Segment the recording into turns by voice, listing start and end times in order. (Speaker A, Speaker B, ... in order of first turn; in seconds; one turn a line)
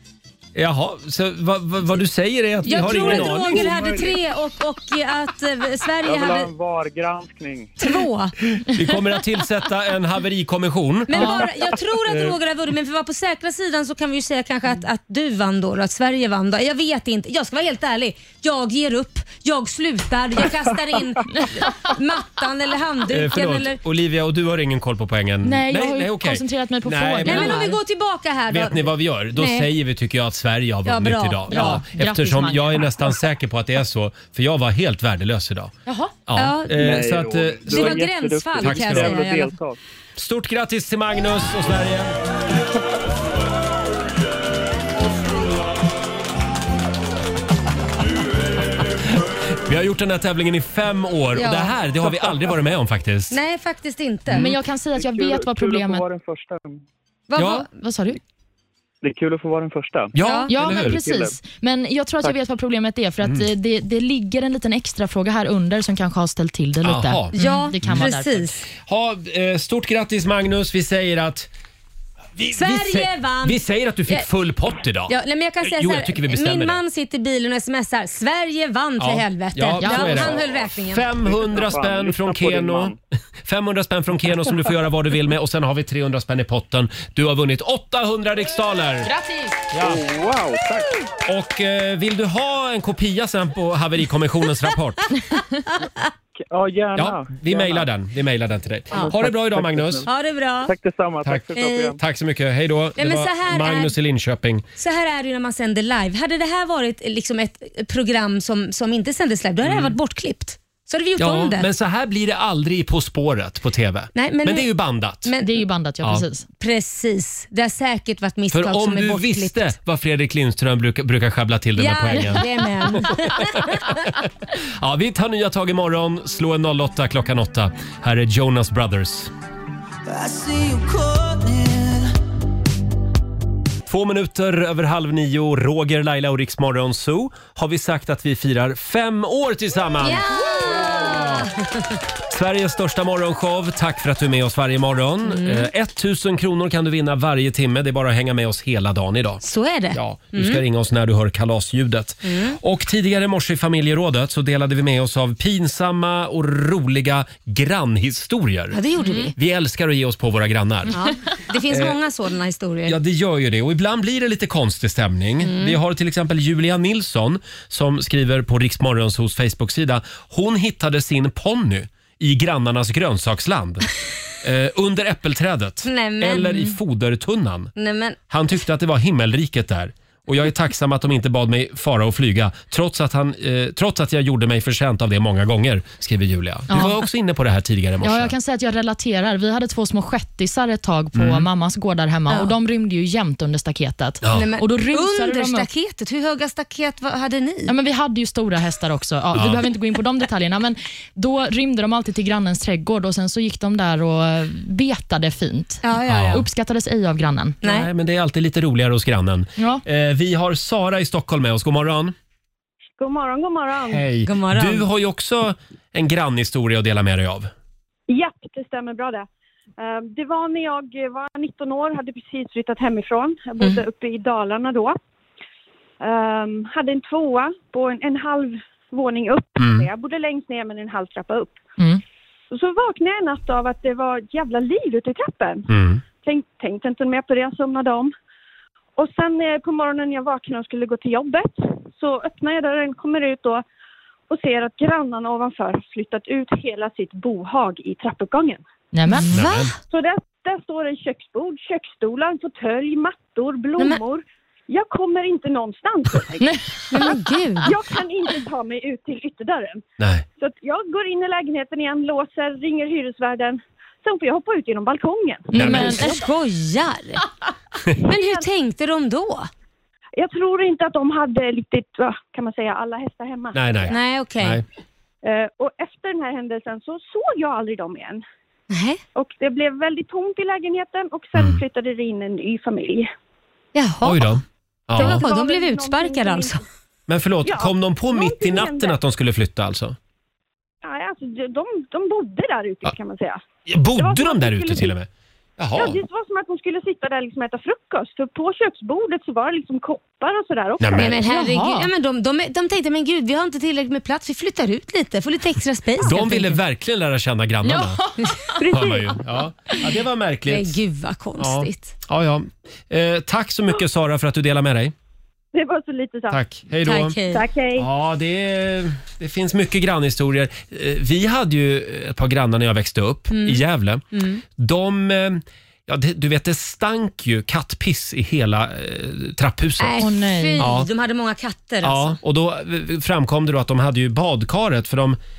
Speaker A: 0.6-3.7
Speaker B: 2.7-6.5
Speaker C: 2.7-4.2
Speaker C: 6.0-7.8
Speaker B: 7.8-8.3
Speaker A: 8.6-11.5
Speaker B: 11.1-23.8
Speaker A: 12.1-12.3
Speaker A: 23.1-27.6
Speaker D: 25.4-27.8
Speaker B: 27.2-29.7
Speaker A: 28.5-35.7
Speaker B: 30.9-31.8
Speaker D: 31.5-33.0
Speaker D: 35.9-36.1
Speaker A: 36.3-39.2
Speaker B: 36.4-37.1
Speaker C: 36.7-39.8
Speaker B: 37.7-39.5
Speaker A: 40.2-42.1
Speaker A: 49.7-53.4
Speaker B: 51.4-51.8
Speaker B: 53.3-54.5
Speaker D: 54.3-56.0
Speaker C: 55.0-56.8
Speaker B: 57.3-57.7
Speaker A: 57.4-57.7
Speaker D: 57.7-58.2
Speaker C: 59.0-60.1
Speaker A: 60.1-61.0
Speaker B: 60.2-60.5
Speaker D: 60.5-68.4
Speaker C: 60.7-61.4
Speaker A: 66.8-68.1
Speaker B: 67.3-68.6
Speaker A: 68.7-71.5
Speaker A: 72.4-76.8
Speaker B: 72.5-74.3
Speaker B: 75.1-81.1
Speaker A: 79.0-89.1
Speaker D: 79.8-80.3
Speaker C: 81.2-83.0
Speaker D: 89.1-89.6
Speaker A: 89.7-90.0
Speaker C: 89.8-90.9
Speaker A: 91.3-95.1
Speaker C: 96.4-97.9
Speaker A: 97.0-100.1
Speaker C: 98.9-100.1
Speaker B: 100.0-100.8
Speaker C: 100.6-102.0
Speaker A: 101.2-104.7
Speaker B: 101.5-102.0
Speaker B: 103.0-103.9
Speaker B: 104.8-111.7
Speaker A: 109.6-110.0
Speaker A: 111.2-115.3
Speaker B: 114.2-114.7
Speaker B: 115.2-115.5
Speaker D: 115.4-116.5
Speaker B: 116.6-119.7
Speaker A: 118.5-123.9
Speaker B: 121.8-124.0
Speaker A: 124.8-129.3
Speaker A: 133.9-141.5
Speaker B: 140.0-142.0
Speaker A: 142.3-149.4
Speaker B: 145.3-145.7
Speaker B: 149.4-150.6
Speaker A: 149.9-161.1
Speaker B: 152.3-152.6
Speaker B: 158.7-159.3
Speaker B: 160.9-163.0
Speaker A: 161.7-162.0
Speaker A: 162.9-173.9
Speaker B: 165.4-165.8
Speaker A: 174.4-177.7
Speaker B: 175.8-176.8
Speaker B: 177.8-178.2
Speaker A: 178.3-188.3
Speaker D: 186.7-187.0
Speaker D: 188.0-195.7
Speaker A: 191.2-191.5
Speaker B: 192.3-192.6
Speaker A: 194.2-194.5
Speaker B: 194.3-197.7
Speaker D: 197.7-207.6
Speaker A: 199.3-199.7
Speaker B: 205.8-206.4
Speaker A: 206.1-206.4
Speaker B: 207.6-207.9
Speaker A: 207.6-212.1
Speaker D: 209.6-209.8
Speaker E: 213.0-214.1
Speaker A: 213.9-217.5
Speaker B: 214.2-214.8
Speaker E: 218.1-219.3
Speaker E: 219.8-225.0
Speaker E: 226.0-231.6
Speaker A: 229.6-229.9
Speaker E: 232.5-235.7
Speaker A: 235.7-236.0
Speaker E: 236.2-238.1
Speaker E: 239.0-243.6
Speaker E: 244.3-248.6
Speaker D: 248.9-249.3
Speaker B: 249.2-249.7
Speaker A: 249.3-249.7
Speaker E: 249.9-256.6
Speaker B: 256.9-257.7
Speaker E: 257.6-259.8
Speaker A: 260.0-260.2
Speaker E: 260.4-266.3
Speaker D: 265.5-266.1
Speaker A: 265.6-266.1
Speaker B: 265.6-267.2
Speaker B: 268.0-269.5
Speaker E: 270.2-274.0
Speaker A: 273.5-274.6
Speaker B: 273.9-274.6
Speaker E: 275.2-278.2
Speaker B: 278.7-279.0
Speaker E: 279.1-283.1
Speaker A: 281.4-281.6
Speaker B: 283.8-284.4
Speaker A: 284.0-285.3
Speaker B: 285.0-286.6
Speaker E: 285.0-286.6
Speaker A: 287.1-290.0
Speaker E: 287.4-289.0
Speaker E: 290.8-293.4
Speaker A: 293.7-296.0
Speaker E: 294.0-294.9
Speaker E: 295.8-301.2
Speaker A: 300.8-301.2
Speaker B: 300.9-306.6
Speaker D: 301.2-301.9
Speaker A: 306.0-308.0
Speaker D: 307.6-308.6
Speaker E: 308.6-309.2
Speaker A: 308.7-310.8
Speaker B: 310.5-311.9
Speaker A: 311.4-314.9
Speaker E: 315.5-316.4
Speaker A: 316.3-317.2
Speaker B: 316.8-317.4
Speaker E: 317.3-317.9
Speaker A: 317.8-324.0
Speaker B: 323.3-323.6
Speaker B: 324.1-324.4
Speaker A: 324.6-330.0
Speaker B: 329.8-332.2
Speaker D: 330.0-330.7
Speaker A: 330.6-330.9
Speaker A: 331.8-335.2